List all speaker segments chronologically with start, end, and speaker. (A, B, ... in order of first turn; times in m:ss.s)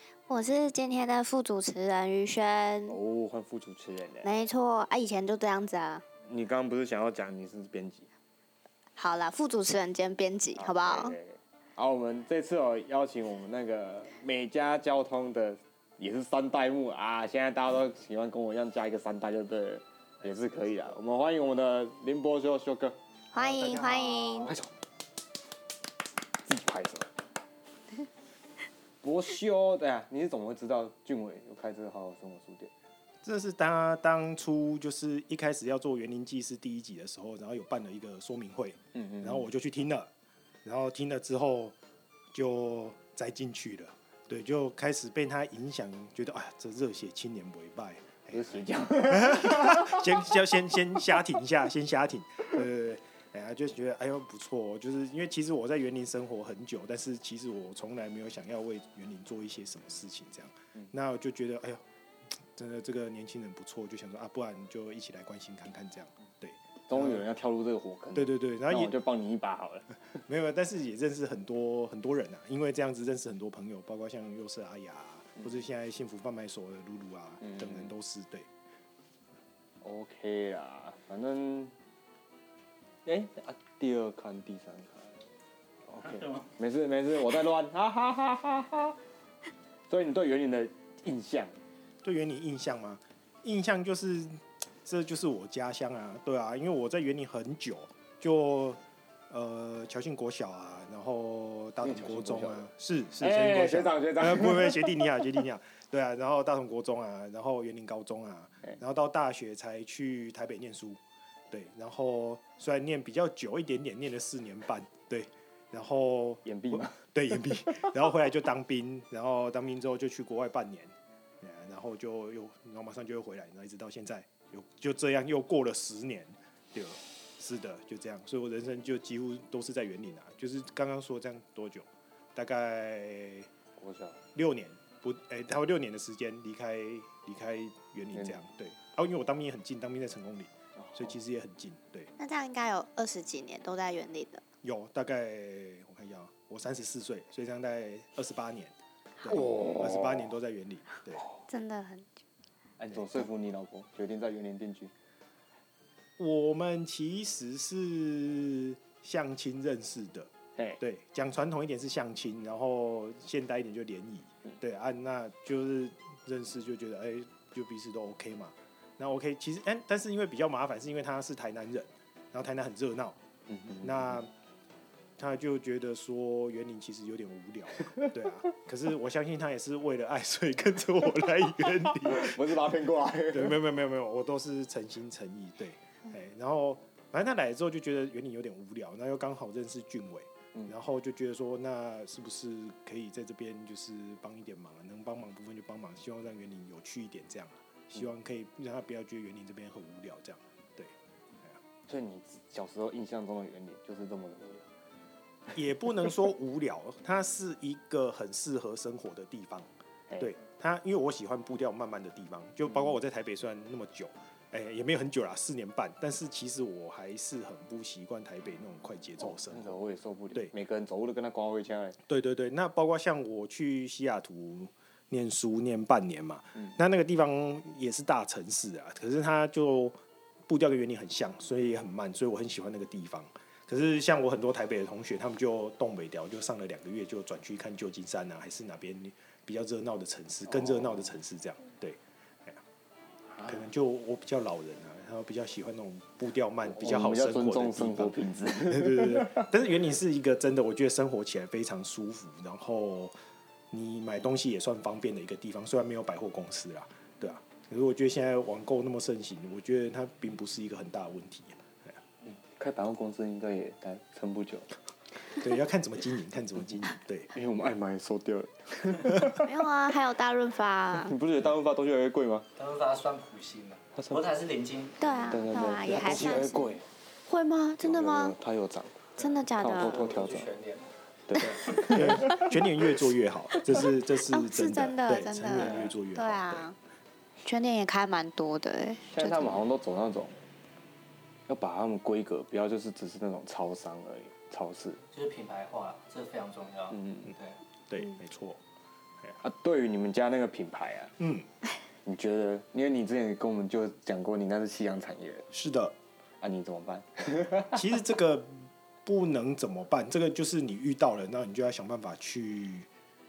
0:00.3-0:03.0 A
0:02.9-0:04.3 B
0:04.2-0:06.0 A
0:06.2-0:08.1 B
0:09.0-0:11.2 A
0:10.6-0:24.7 B
0:23.3-0:24.5 A
0:23.6-0:24.2 C
0:26.4-0:27.1 B
0:29.0-0:32.7 B
0:33.2-0:40.1 C
0:38.9-0:39.5 B
0:40.6-0:41.7 C
0:42.3-1:01.8 C
0:48.3-0:50.2 B
1:02.5-1:07.2 C
1:06.9-1:10.0 B
1:08.1-1:08.9 C
1:10.2-1:18.5 C
1:17.4-1:17.9 B
1:19.8-1:21.7 B
1:23.0-1:25.1 B
1:25.9-1:29.0 B
1:29.9-1:31.5 B
1:32.0-2:13.5 C
1:41.8-1:42.6 B
1:43.2-1:45.3 B
1:56.4-1:57.0 B
2:13.8-2:14.2 B
2:14.3-2:22.1 C
2:20.8-2:21.1 B
2:22.2-2:24.4 A
2:24.6-2:31.2 C
2:29.3-2:30.3 B
2:31.5-2:32.1 A
2:32.8-2:34.9 B
2:36.2-2:53.2 C
2:53.5-2:54.2 B
2:53.8-2:54.3 C
2:55.2-3:02.7 C
3:02.0-3:03.6 B
3:03.3-3:21.6 C
3:21.9-3:24.6 B
3:25.5-3:29.7 C
3:30.2-3:39.8 C
3:39.2-3:42.0 B
3:42.1-3:49.9 C
3:50.5-4:02.6 C
4:00.5-4:01.1 B
4:03.4-4:13.1 C
4:06.6-4:09.5 B
4:13.7-4:21.6 C
4:22.2-4:24.7 B
4:25.3-4:27.3 C
4:27.3-4:29.5 B
4:29.4-4:31.1 A
4:31.0-4:32.5 B
4:32.6-4:35.4 D
4:34.0-4:34.2 B
4:35.0-4:38.3 A
4:35.3-4:36.8 B
4:37.8-4:40.5 B
4:39.2-4:40.9 D
4:39.2-4:40.0 A
4:41.3-4:42.5 B
4:41.4-4:46.7 C
4:44.3-4:46.7 A
4:45.5-4:45.9 B
4:47.4-4:49.6 A
4:49.1-4:50.4 B
4:51.5-4:55.0 B
4:55.1-4:57.6 D
4:56.9-4:57.3 B
4:57.9-4:58.6 C
4:59.4-5:01.1 B
5:01.2-5:01.5 C
5:02.0-5:05.5 B
5:05.5-5:05.9 C
5:06.4-5:07.8 B
5:07.7-5:12.9 C